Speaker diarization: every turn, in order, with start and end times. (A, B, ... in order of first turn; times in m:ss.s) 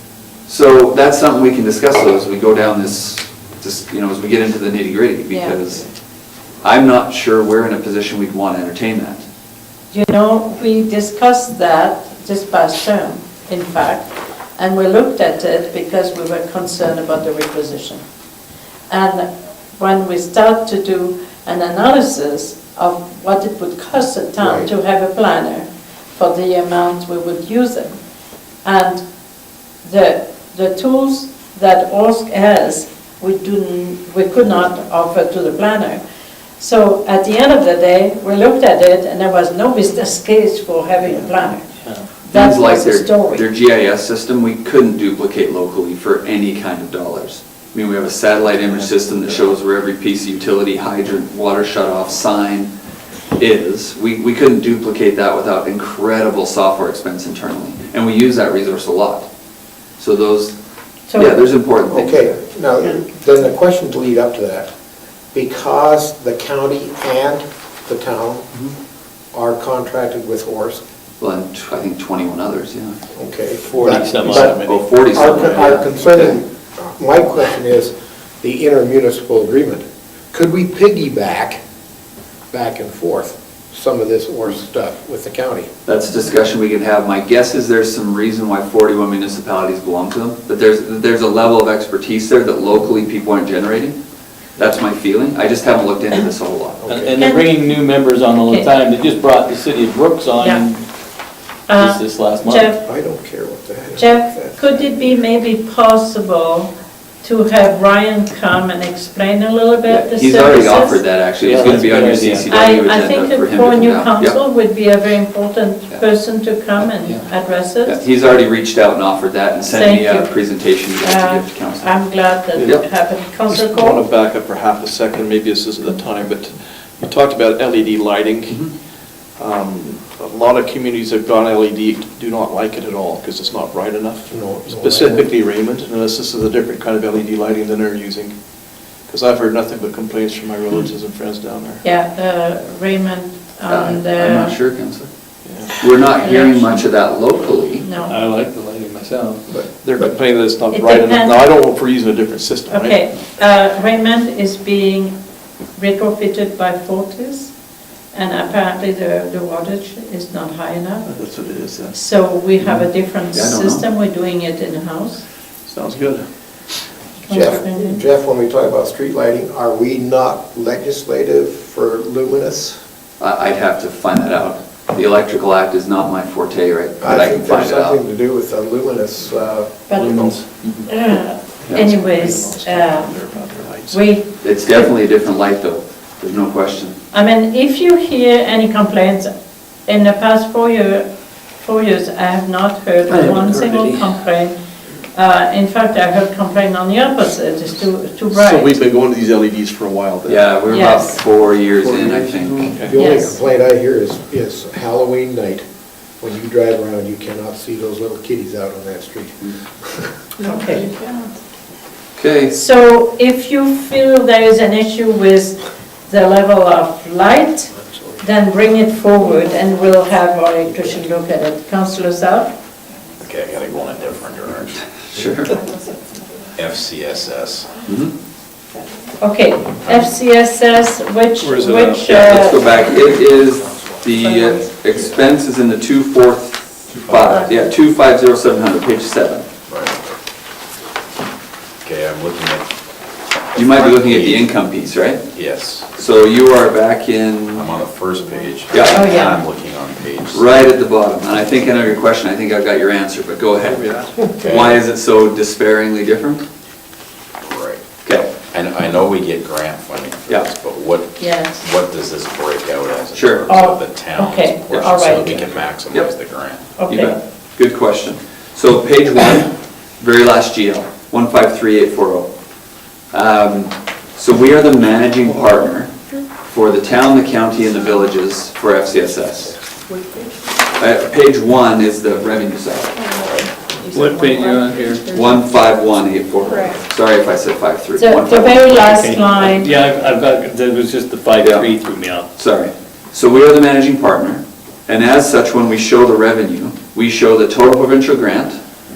0:00.5-0:05.8 A
0:05.3-0:05.6 B
0:06.6-0:09.2 A
0:09.9-0:18.0 B
0:18.9-0:28.0 B
0:24.4-0:24.7 C
0:28.6-0:29.0 B
0:29.8-0:36.0 B
0:36.6-0:43.5 B
0:41.0-0:41.5 D
0:42.3-0:52.7 A
0:53.4-0:59.3 A
1:00.0-1:00.5 A
1:01.1-1:01.5 B
1:01.2-1:02.3 A
1:01.9-1:04.7 C
1:05.3-1:08.5 C
1:09.3-1:10.8 C
1:11.2-1:13.0 A
1:13.2-1:21.6 C
1:13.6-1:15.8 D
1:13.8-1:14.5 E
1:14.3-1:16.4 A
1:22.5-1:25.7 C
1:25.9-1:34.0 A
1:34.6-1:36.8 A
1:36.8-1:37.2 C
1:36.9-1:40.8 E
1:37.2-1:37.5 B
1:40.4-1:40.6 B
1:41.7-1:42.8 B
1:41.8-1:42.7 E
1:42.8-1:45.0 C
1:44.0-1:46.7 B
1:47.2-1:51.1 B
1:49.9-1:54.4 A
1:51.4-1:52.5 E
1:52.5-1:58.1 B
1:56.8-1:57.2 E
1:57.8-2:01.9 A
1:59.6-2:00.4 B
2:01.0-2:04.0 B
2:02.6-2:08.7 D
2:02.6-2:02.8 A
2:09.4-2:18.3 D
2:14.3-2:15.3 C
2:19.1-2:21.8 D
2:21.8-2:24.6 B
2:23.7-2:25.1 A
2:25.4-2:25.8 D
2:25.8-2:27.9 A
2:26.0-2:26.9 B
2:27.8-2:28.2 B
2:28.0-2:29.4 E
2:29.5-2:33.0 D
2:30.7-2:31.4 B
2:32.7-2:35.1 B
2:35.8-2:37.5 B
2:38.1-2:41.1 B
2:41.1-2:42.0 D
2:41.9-2:45.2 B
2:42.6-2:43.8 A
2:45.7-2:46.3 D
2:47.3-2:48.0 B
2:47.3-2:52.8 C
2:53.2-2:58.0 A
2:57.0-3:00.4 C
2:59.9-3:00.2 B
3:00.0-3:00.8 E
3:00.8-3:03.2 B
3:01.6-3:04.2 D
3:03.9-3:04.8 B
3:04.4-3:07.0 A
3:07.1-3:09.3 B
3:09.9-3:11.0 B
3:11.6-3:14.6 B
3:15.1-3:18.8 B
3:18.3-3:20.7 D
3:20.2-3:22.8 A
3:20.7-3:21.2 B
3:22.6-3:23.0 D
3:22.6-3:25.6 C
3:23.0-3:23.4 B
3:26.2-3:30.1 C
3:30.4-3:31.0 B
3:30.6-3:31.2 F
3:32.2-3:32.6 A
3:32.5-3:42.6 B
3:43.2-3:44.8 F
3:45.1-3:45.6 A
3:45.4-3:45.6 F
3:46.6-3:47.7 F
3:47.9-3:48.1 A
3:49.2-3:52.7 B
3:49.8-3:50.1 F
3:51.4-3:52.1 D
3:52.0-3:59.4 A
3:54.2-3:54.7 B
3:57.3-3:57.8 B
3:59.7-4:00.2 F
4:01.8-4:02.7 F
4:03.6-4:04.7 F
4:03.6-4:05.2 A
4:05.3-4:05.9 F
4:06.0-4:07.7 A
4:07.5-4:10.6 F
4:08.7-4:09.1 A
4:08.9-4:09.4 B
4:10.3-4:16.4 A
4:14.4-4:14.8 F
4:17.4-4:17.8 F
4:18.0-4:18.3 A
4:18.5-4:26.6 F
4:21.2-4:21.6 B
4:23.1-4:23.5 A
4:23.5-4:25.4 B
4:26.8-4:27.2 B
4:26.9-4:29.5 A
4:30.0-4:32.3 A
4:33.1-4:35.9 A
4:36.4-4:39.6 A
4:39.9-4:40.4 F
4:40.8-4:43.0 A
4:42.9-4:43.6 F
4:43.9-4:44.6 B
4:43.9-4:45.1 E
4:45.0-4:45.4 F
4:45.1-4:49.0 A
4:46.4-4:46.8 F
4:48.0-4:49.8 B
4:48.8-4:52.3 E
4:51.4-4:51.7 A
4:52.4-4:58.6 A